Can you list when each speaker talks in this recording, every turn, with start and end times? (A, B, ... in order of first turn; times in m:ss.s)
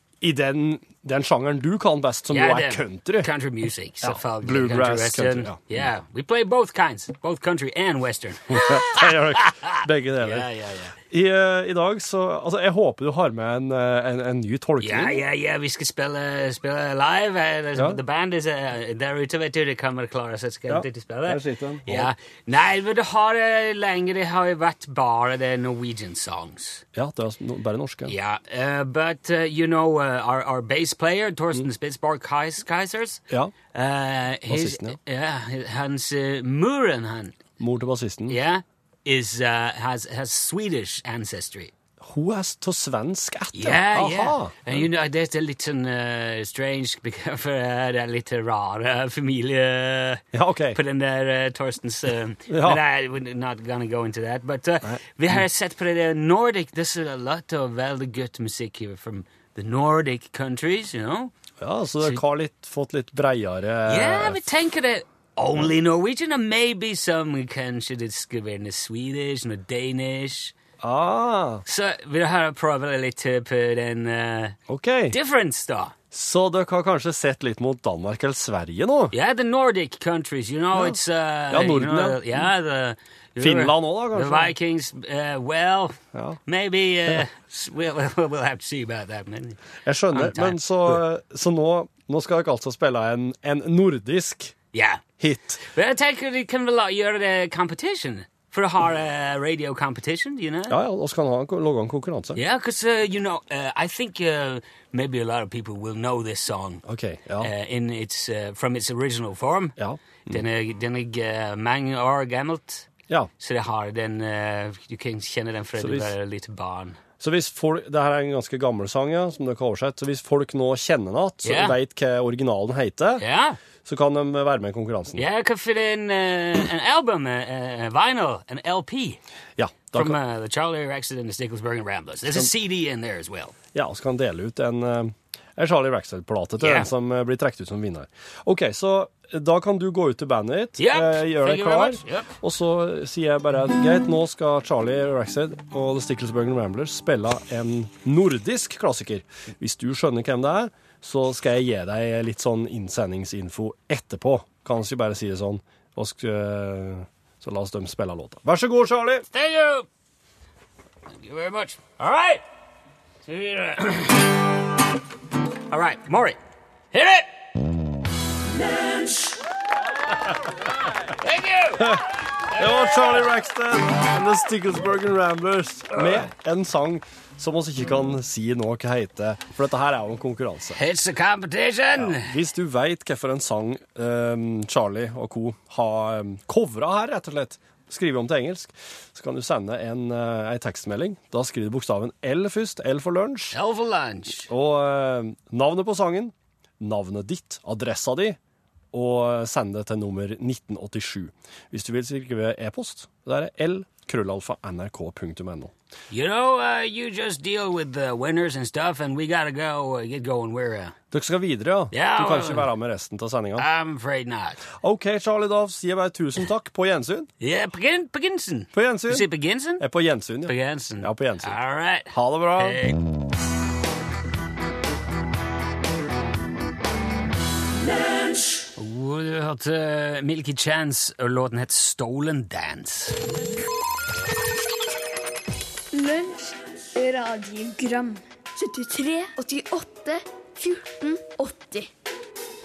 0:00.2-0:03.3 A
0:02.3-0:10.9 B
0:04.0-0:05.6 A
0:08.5-0:10.5 A
0:11.1-0:15.2 A
0:14.8-0:26.8 B
0:20.7-0:22.1 A
0:26.9-0:28.1 A
0:28.0-0:33.2 B
0:33.7-0:37.4 B
0:34.5-0:35.0 A
0:37.6-0:38.4 A
0:38.3-0:41.7 B
0:42.0-0:44.8 A
0:43.5-1:01.3 B
0:50.3-0:50.8 A
0:52.5-0:52.8 A
0:54.8-0:55.4 A
1:01.6-1:04.4 A
1:03.9-1:10.5 B
1:10.8-1:11.6 A
1:11.6-1:14.6 B
1:14.7-1:15.2 A
1:15.1-1:15.9 B
1:16.1-1:19.1 A
1:19.1-1:29.6 B
1:20.7-1:22.5 A
1:23.4-1:24.5 A
1:26.1-1:26.4 A
1:29.8-1:34.5 A
1:30.1-1:31.0 B
1:34.7-1:35.0 B
1:35.2-1:35.6 A
1:35.6-1:40.8 B
1:40.7-1:42.4 A
1:42.4-1:46.8 B
1:46.8-1:47.5 A
1:47.4-1:49.8 B
1:49.8-1:50.4 A
1:50.3-1:52.9 B
1:53.4-1:57.0 B
1:55.8-1:56.1 A
1:57.2-2:03.2 A
2:01.4-2:01.8 B
2:03.2-2:03.6 B
2:03.8-2:05.2 A
2:05.2-2:09.2 B
2:09.6-2:10.2 A
2:09.9-2:13.5 B
2:13.7-2:39.2 A
2:16.6-2:16.9 B
2:20.8-2:22.3 B
2:39.3-2:39.9 B
2:41.2-2:42.4 B
2:43.2-2:44.3 B
2:45.7-2:46.4 B
2:46.9-2:47.3 B
2:50.6-2:53.1 B
2:51.8-3:00.8 A
3:00.7-3:02.3 B
3:02.0-3:13.6 A
3:13.5-3:14.5 B
3:14.5-3:18.4 A
3:18.9-3:25.7 A
3:26.1-3:30.9 B
3:31.1-3:33.6 A
3:31.9-3:32.7 B
3:33.6-3:34.6 B
3:34.8-3:37.3 A
3:37.4-3:39.8 B
3:38.7-3:39.3 A
3:39.8-3:41.6 A
3:40.4-3:43.0 B
3:42.1-3:42.8 A
3:48.8-3:53.2 B
3:55.9-4:01.9 C